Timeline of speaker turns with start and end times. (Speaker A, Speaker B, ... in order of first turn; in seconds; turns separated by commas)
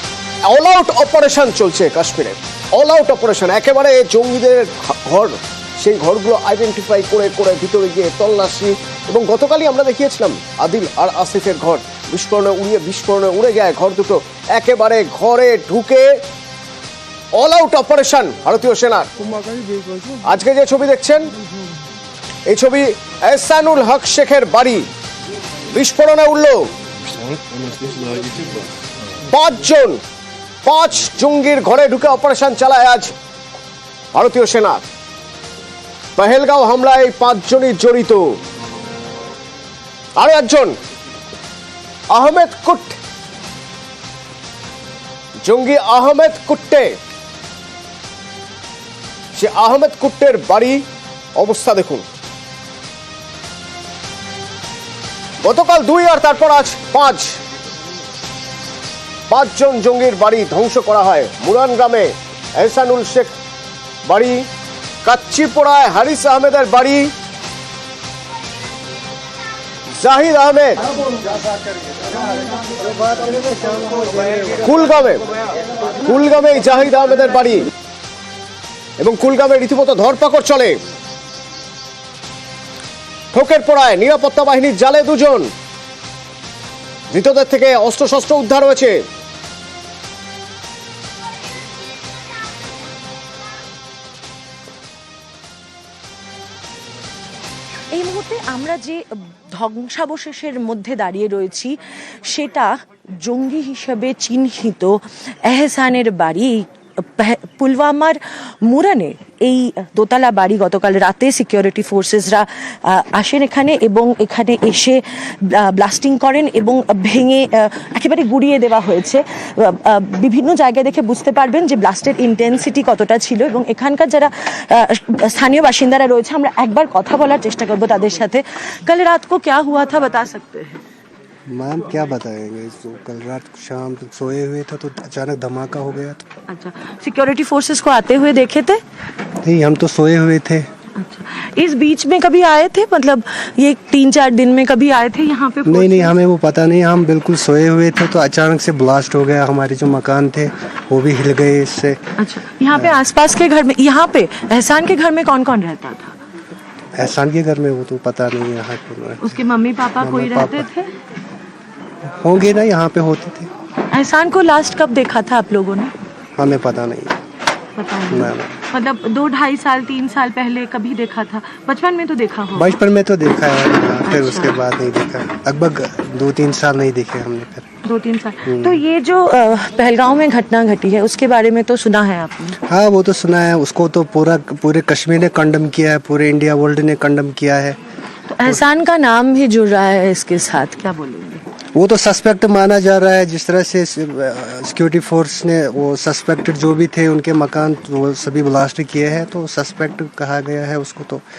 Speaker A: 0.5-16.2, Speaker A: 17.4-19.1, Speaker A: 20.2-21.3, Speaker A: 22.5-24.9, Speaker A: 25.7-26.7, Speaker A: 29.3-30.0, Speaker A: 30.6-33.1, Speaker A: 34.1-34.9, Speaker A: 36.2-38.4, Speaker A: 40.2-40.8, Speaker A: 42.1-43.0, Speaker A: 45.4-47.0, Speaker A: 49.4-50.9, Speaker A: 51.4-52.0, Speaker A: 55.4-57.4, Speaker A: 59.3-63.3, Speaker A: 64.0-64.5, Speaker A: 65.0-67.1, Speaker A: 70.0-70.8, Speaker B: 72.6-74.5, Speaker A: 74.6-75.2, Speaker A: 76.0-77.7, Speaker A: 79.0-80.8, Speaker A: 83.3-85.5, Speaker A: 87.1-89.0, Speaker C: 97.9-130.8, Speaker B: 131.5-136.2, Speaker C: 136.5-138.8, Speaker B: 139.4-140.7, Speaker C: 141.0-146.1, Speaker B: 145.7-152.0, Speaker C: 152.2-156.2, Speaker B: 156.9-159.3, Speaker C: 159.2-160.9, Speaker B: 160.0-160.7, Speaker B: 162.2-163.5, Speaker C: 163.9-165.9, Speaker B: 166.4-167.2, Speaker C: 167.8-172.8, Speaker B: 168.1-168.5, Speaker B: 172.6-177.7, Speaker C: 174.1-174.6, Speaker C: 177.8-182.6, Speaker B: 178.5-178.8, Speaker B: 182.6-187.8, Speaker C: 188.3-191.4, Speaker B: 191.7-201.2